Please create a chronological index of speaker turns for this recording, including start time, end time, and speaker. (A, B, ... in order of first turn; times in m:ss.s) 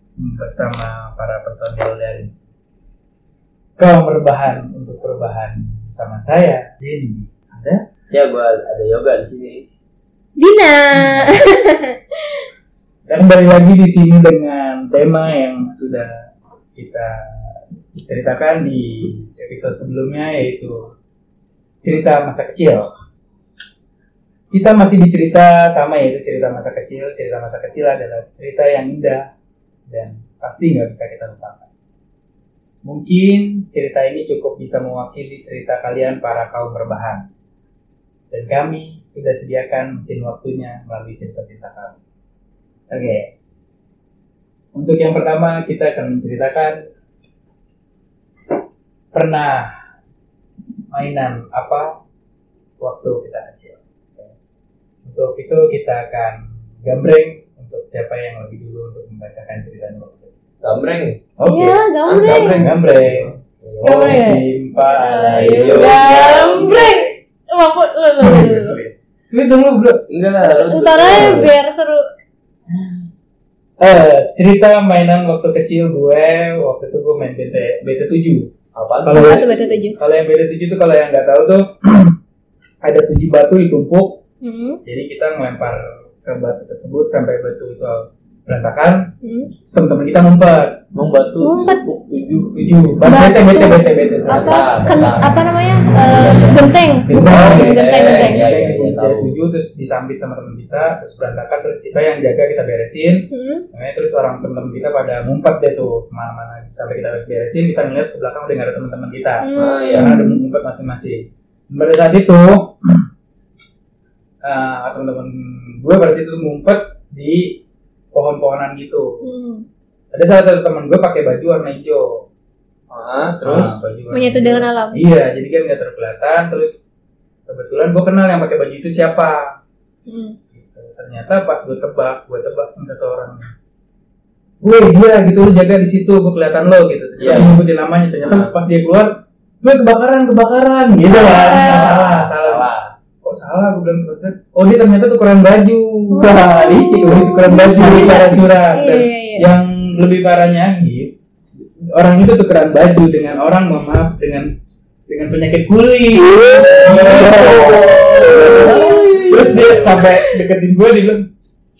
0:00.2-0:02.3 A
0:03.8-0:07.8 A
0:08.1-0:09.6 B
0:10.4-0:12.4 C
0:11.0-0:11.4 A
0:13.1-0:20.9 A
0:21.8-0:22.9 A
0:24.5-0:29.3 A
0:29.9-0:31.7 A
0:32.8-0:37.3 A
0:38.3-0:42.0 A
0:42.9-0:43.3 A
0:44.7-0:46.8 A
0:49.1-0:49.7 A
0:50.9-0:52.0 A
0:52.8-0:54.3 A
0:55.0-1:00.3 A
1:00.6-1:01.2 B
1:01.4-1:07.0 A
1:01.5-1:02.6 C
1:02.0-1:04.3 B
1:03.8-1:08.8 C
1:05.0-1:07.1 B
1:08.2-1:10.0 A
1:10.1-1:11.5 B
1:10.4-1:12.1 C
1:11.1-1:11.5 A
1:13.8-1:18.5 A
1:18.7-1:19.8 B
1:19.0-1:22.2 A
1:19.1-1:20.0 C
1:22.8-1:24.2 A
1:24.4-1:24.8 C
1:24.8-1:29.1 A
1:29.2-1:29.5 C
1:29.6-1:30.8 A
1:30.9-1:32.8 B
1:31.4-1:31.8 C
1:32.6-1:34.6 A
1:33.1-1:38.4 C
1:34.3-1:39.3 B
1:37.1-1:53.0 A
1:43.3-1:43.7 C
1:49.4-1:50.4 C
1:49.6-1:50.1 B
1:54.4-1:57.6 A
1:58.1-1:59.2 A
1:59.2-1:59.7 C
2:00.1-2:02.3 A
2:02.9-2:03.8 B
2:03.4-2:06.8 A
2:04.1-2:05.0 C
2:07.5-2:09.6 A
2:10.1-2:10.4 C
2:10.5-2:13.5 A
2:14.6-2:22.7 A
2:17.2-2:17.6 B
2:18.2-2:18.6 B
2:21.0-2:22.9 B
2:21.4-2:21.9 C
2:23.2-2:31.2 A
2:26.1-2:29.5 C
2:26.2-2:27.2 B
2:27.8-2:28.2 B
2:31.8-2:34.6 A
2:35.1-2:41.3 A
2:36.5-2:40.4 C
2:36.8-2:40.1 B